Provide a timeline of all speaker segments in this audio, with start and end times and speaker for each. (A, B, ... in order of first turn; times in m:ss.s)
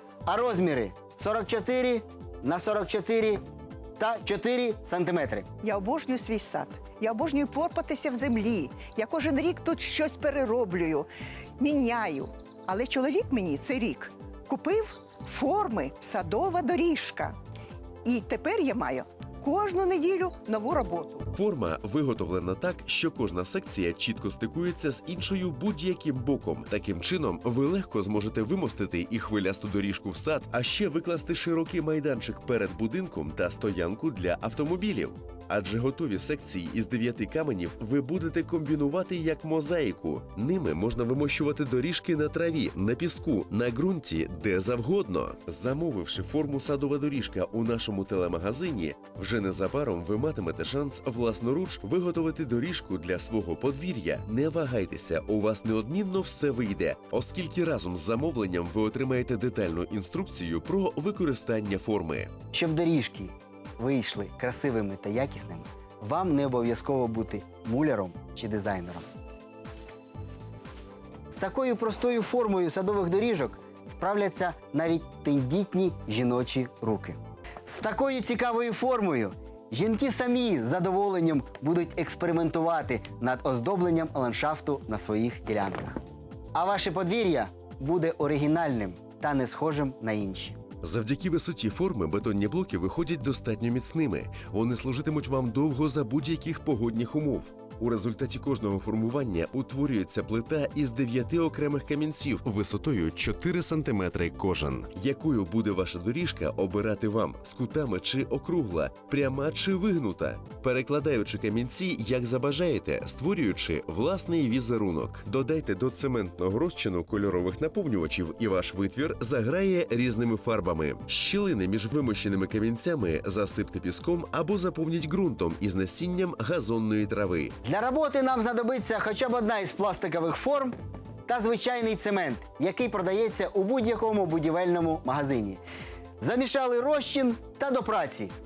0:00.3-0:03.4 A
0:04.0-0:05.5 A
0:05.6-0:17.4 B
0:18.0-0:21.3 B
0:21.3-1:02.3 C
1:02.5-1:09.1 A
1:11.3-1:26.0 A
1:26.6-1:30.6 A
1:30.8-2:07.5 C
2:07.6-2:10.7 A
2:11.3-2:15.6 A
2:16.2-2:18.3 A